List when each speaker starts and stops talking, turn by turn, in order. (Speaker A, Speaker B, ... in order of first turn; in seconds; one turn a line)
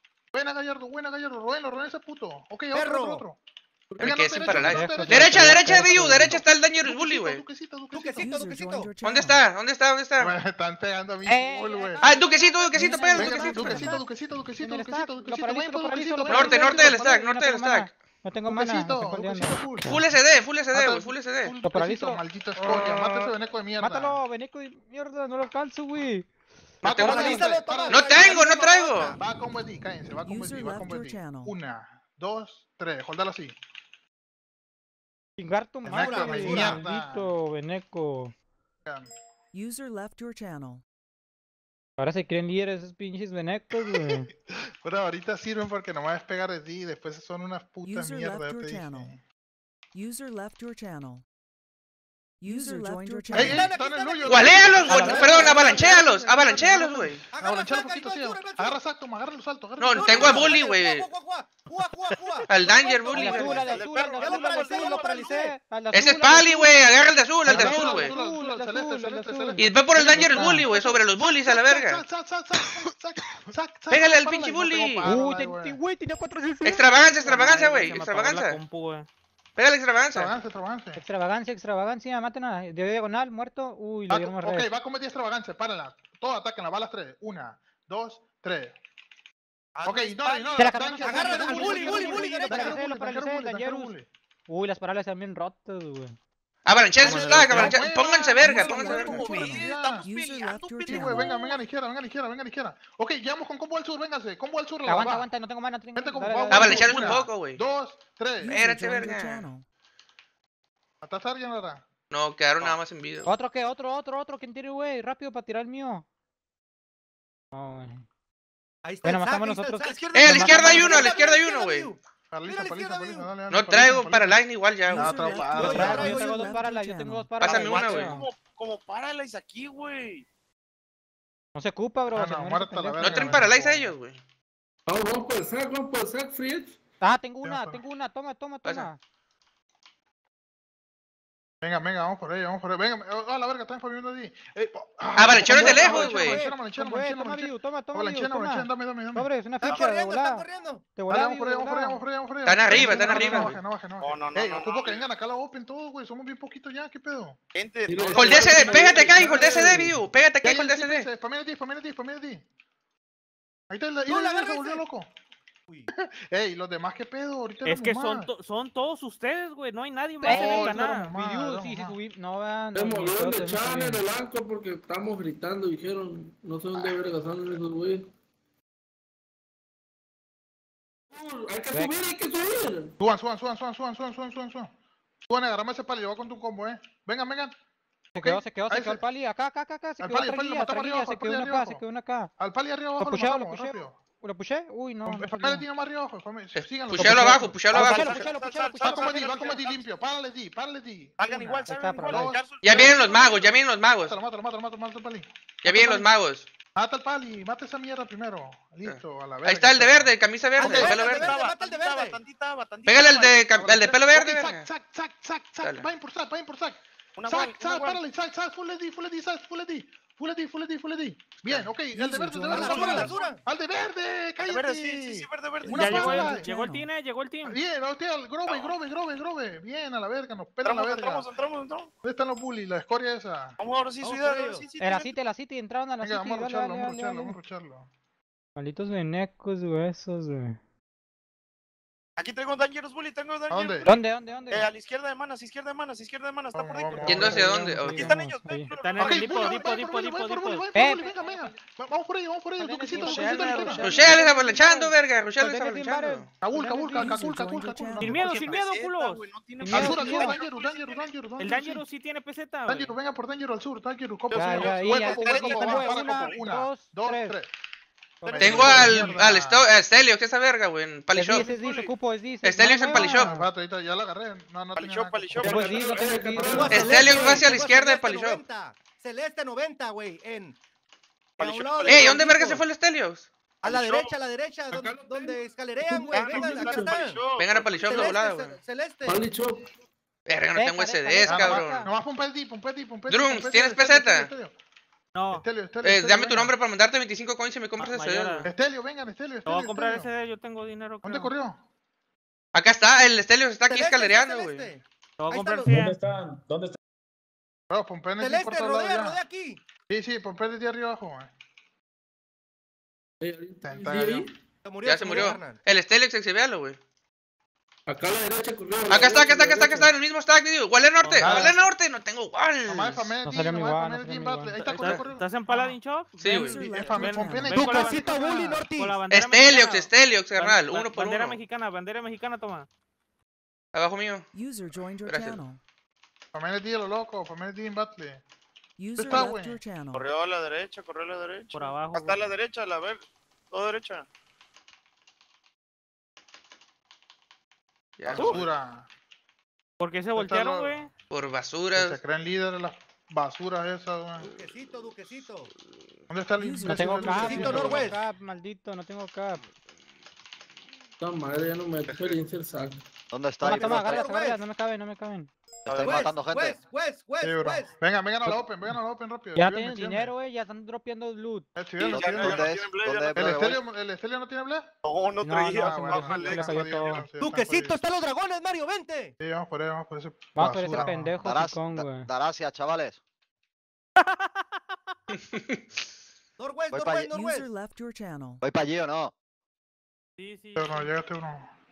Speaker A: 0.3-3.4
Speaker B: 2.7-3.2
Speaker C: 3.9-4.8
Speaker D: 4.0-7.4
Speaker A: 4.0-8.3
Speaker E: 4.7-6.4
Speaker B: 7.9-8.9
Speaker F: 8.2-9.5
Speaker D: 9.0-10.3
Speaker A: 10.2-12.1
Speaker E: 11.2-14.0
Speaker D: 12.0-13.9
Speaker F: 12.8-14.0
Speaker A: 13.1-17.0
Speaker E: 14.6-19.6
Speaker D: 16.3-17.9
Speaker A: 18.5-20.0
Speaker D: 19.8-21.5
Speaker A: 20.7-24.2
Speaker E: 21.6-22.2
Speaker E: 22.9-26.3
Speaker A: 26.8-28.4
Speaker D: 26.9-29.1
Speaker B: 26.9-29.2
Speaker A: 29.1-33.5
Speaker F: 30.2-31.5
Speaker E: 35.4-38.3
Speaker A: 35.8-37.3
Speaker B: 35.9-36.8
Speaker A: 38.8-39.1
Speaker F: 39.5-40.8
Speaker E: 42.0-44.3
Speaker A: 43.7-44.0
Speaker A: 44.8-49.2
Speaker F: 47.8-49.1
Speaker F: 49.9-51.2
Speaker F: 52.4-53.7
Speaker E: 52.5-53.0
Speaker B: 53.3-56.0
Speaker A: 53.3-60.6
Speaker D: 54.3-57.2
Speaker E: 54.9-56.0
Speaker E: 56.6-56.9
Speaker B: 57.3-58.8
Speaker D: 59.8-61.0
Speaker B: 59.9-62.5
Speaker G: 62.5-65.4
Speaker D: 62.5-63.6
Speaker B: 63.0-65.5
Speaker E: 63.1-70.8
Speaker D: 65.9-68.2
Speaker A: 67.5-75.8
Speaker D: 69.6-72.0
Speaker D: 73.9-75.1
Speaker E: 75.0-77.1
Speaker D: 76.6-78.6
Speaker H: 77.2-79.1
Speaker D: 79.6-80.3
Speaker A: 80.1-81.0
Speaker E: 81.0-84.7
Speaker A: 84.1-88.8
Speaker G: 89.8-91.8
Speaker A: 89.8-94.1
Speaker E: 90.6-94.0
Speaker B: 91.0-92.8
Speaker E: 94.5-96.1
Speaker D: 96.7-99.2
Speaker A: 97.0-100.0
Speaker E: 97.0-97.6
Speaker F: 98.4-101.3
Speaker G: 98.9-100.0
Speaker B: 100.1-100.9
Speaker A: 100.9-105.3
Speaker G: 101.0-101.4
Speaker E: 104.8-107.1
Speaker A: 105.9-108.5
Speaker D: 106.5-107.6
Speaker F: 108.4-109.6
Speaker D: 108.5-109.5
Speaker A: 111.0-111.8
Speaker D: 112.1-113.3
Speaker E: 113.2-116.0
Speaker E: 117.5-118.0
Speaker B: 118.8-123.3
Speaker E: 119.0-121.0
Speaker D: 120.1-121.9
Speaker A: 122.3-126.2
Speaker D: 123.5-125.2
Speaker F: 124.8-127.3
Speaker B: 125.6-126.4
Speaker E: 125.6-128.3
Speaker D: 127.4-128.2
Speaker G: 127.5-130.2
Speaker E: 131.6-133.5
Speaker A: 132.1-133.9
Speaker D: 133.0-134.2
Speaker C: 134.9-136.8
Speaker E: 137.0-139.0
Speaker A: 137.4-137.8
Speaker A: 141.6-149.3
Speaker D: 145.2-146.4
Speaker E: 145.4-152.0
Speaker B: 149.6-150.9
Speaker G: 149.7-150.1
Speaker A: 151.1-157.4
Speaker D: 152.5-153.6
Speaker E: 152.7-153.6
Speaker G: 154.0-155.1
Speaker G: 157.5-159.1
Speaker C: 157.9-160.0
Speaker D: 158.1-161.1
Speaker A: 158.3-159.9
Speaker A: 160.4-162.4
Speaker A: 163.7-165.1
Speaker B: 164.1-164.8
Speaker A: 166.0-168.3
Speaker H: 167.6-171.1
Speaker E: 170.2-174.0
Speaker A: 170.2-172.0
Speaker C: 172.7-178.1
Speaker C: 181.1-182.9
Speaker E: 181.7-182.0
Speaker A: 183.0-184.7
Speaker A: 185.2-187.5
Speaker E: 188.1-192.3
Speaker A: 188.2-189.0
Speaker A: 190.0-191.8
Speaker A: 192.4-194.0
Speaker E: 193.0-195.6
Speaker A: 195.0-198.2
Speaker D: 196.5-198.2
Speaker E: 197.0-199.3
Speaker G: 197.7-199.9
Speaker A: 198.8-203.5
Speaker G: 201.2-203.5
Speaker E: 201.7-202.3
Speaker D: 202.6-204.2
Speaker A: 204.0-205.3
Speaker D: 205.6-206.5
Speaker E: 205.7-206.1
Speaker A: 206.7-211.3
Speaker D: 208.8-211.3
Speaker G: 210.6-213.5
Speaker B: 210.6-212.2
Speaker D: 212.9-214.7
Speaker A: 213.5-226.5
Speaker G: 217.2-218.0
Speaker D: 221.4-221.7
Speaker F: 222.0-222.2
Speaker B: 222.5-223.4
Speaker G: 222.5-223.3
Speaker G: 224.4-226.4
Speaker H: 225.7-227.6
Speaker F: 225.9-226.8
Speaker A: 227.4-231.3
Speaker G: 228.5-228.7
Speaker G: 230.6-231.9
Speaker A: 232.0-233.6
Speaker G: 233.6-235.1
Speaker B: 234.0-234.7
Speaker E: 234.8-237.4
Speaker A: 236.0-237.9
Speaker E: 238.6-240.6
Speaker G: 242.2-243.9
Speaker A: 243.5-243.9
Speaker E: 243.8-244.7
Speaker G: 244.5-249.6
Speaker A: 246.5-247.4
Speaker E: 246.9-248.7
Speaker D: 247.1-248.1
Speaker H: 248.7-250.7
Speaker A: 249.0-254.1
Speaker E: 250.7-251.4
Speaker E: 252.6-257.2
Speaker D: 253.8-256.3
Speaker A: 256.4-258.5
Speaker F: 256.9-258.2
Speaker H: 258.0-259.3
Speaker G: 258.2-261.1
Speaker E: 259.6-260.4
Speaker A: 259.7-261.8
Speaker H: 261.4-262.9
Speaker A: 262.7-267.5
Speaker G: 264.3-266.3
Speaker E: 264.3-267.4
Speaker E: 268.2-269.2
Speaker A: 268.3-269.7
Speaker D: 268.4-271.5
Speaker E: 271.1-273.5
Speaker G: 271.3-271.9
Speaker D: 272.4-273.4
Speaker A: 272.9-275.6
Speaker G: 274.7-275.5
Speaker C: 275.4-277.2
Speaker E: 275.5-276.9
Speaker G: 276.3-276.6
Speaker B: 276.6-280.6
Speaker D: 276.7-278.4
Speaker G: 281.4-282.5
Speaker B: 281.4-282.6
Speaker D: 281.9-283.3
Speaker B: 283.6-287.2
Speaker G: 283.6-284.1
Speaker C: 284.7-287.1
Speaker G: 286.1-287.9
Speaker D: 287.4-288.6
Speaker B: 287.8-289.2
Speaker C: 289.1-289.6
Speaker D: 290.3-291.9
Speaker E: 290.5-291.9
Speaker A: 291.2-294.5
Speaker D: 293.1-294.3
Speaker H: 295.1-295.5
Speaker A: 295.3-296.5
Speaker D: 295.8-298.5
Speaker H: 297.8-298.5
Speaker A: 298.4-300.1
Speaker H: 299.4-301.3
Speaker A: 301.0-301.6
Speaker D: 302.5-304.7
Speaker B: 303.7-305.9
Speaker H: 305.2-305.9
Speaker C: 305.7-306.7
Speaker A: 307.7-309.2
Speaker B: 308.2-309.6
Speaker A: 309.9-311.3
Speaker C: 313.2-314.3
Speaker A: 313.6-314.3
Speaker B: 314.6-315.6
Speaker D: 314.8-316.8
Speaker C: 317.9-319.9
Speaker D: 318.9-323.1
Speaker H: 321.0-321.5
Speaker A: 321.2-321.6
Speaker A: 322.6-325.3
Speaker E: 323.2-324.7
Speaker H: 324.7-332.7
Speaker D: 324.8-325.0
Speaker D: 326.2-326.6
Speaker F: 326.2-327.9
Speaker A: 326.5-328.4
Speaker B: 327.5-329.0
Speaker D: 329.1-331.4
Speaker D: 333.7-334.3
Speaker F: 334.3-335.6
Speaker D: 335.0-335.4
Speaker A: 336.3-338.2
Speaker F: 338.8-340.0
Speaker A: 338.9-339.6
Speaker G: 339.9-344.1
Speaker H: 341.5-342.2
Speaker D: 348.0-348.3
Speaker A: 348.0-348.9
Speaker H: 349.8-350.9
Speaker A: 350.1-350.8
Speaker D: 351.1-352.0
Speaker A: 351.7-354.3
Speaker B: 354.2-355.5
Speaker A: 356.1-358.0
Speaker F: 356.4-357.4
Speaker E: 356.6-359.4
Speaker B: 357.1-358.0
Speaker C: 361.0-362.8
Speaker B: 363.1-364.4
Speaker I: 363.3-363.9
Speaker E: 363.4-365.3
Speaker G: 365.7-366.1
Speaker B: 365.7-367.7
Speaker I: 366.0-366.3
Speaker A: 367.2-370.1
Speaker E: 369.4-371.5
Speaker A: 371.6-372.4
Speaker G: 371.8-373.2
Speaker I: 372.3-373.5
Speaker A: 373.1-374.7
Speaker G: 374.8-376.6
Speaker E: 375.2-377.1
Speaker A: 375.5-377.8
Speaker B: 377.2-379.1
Speaker A: 379.2-381.1
Speaker E: 380.3-382.1
Speaker I: 381.2-383.0
Speaker D: 385.1-385.6
Speaker B: 386.4-387.5
Speaker F: 387.1-388.4
Speaker I: 388.4-389.1
Speaker H: 390.2-390.9
Speaker A: 390.6-391.5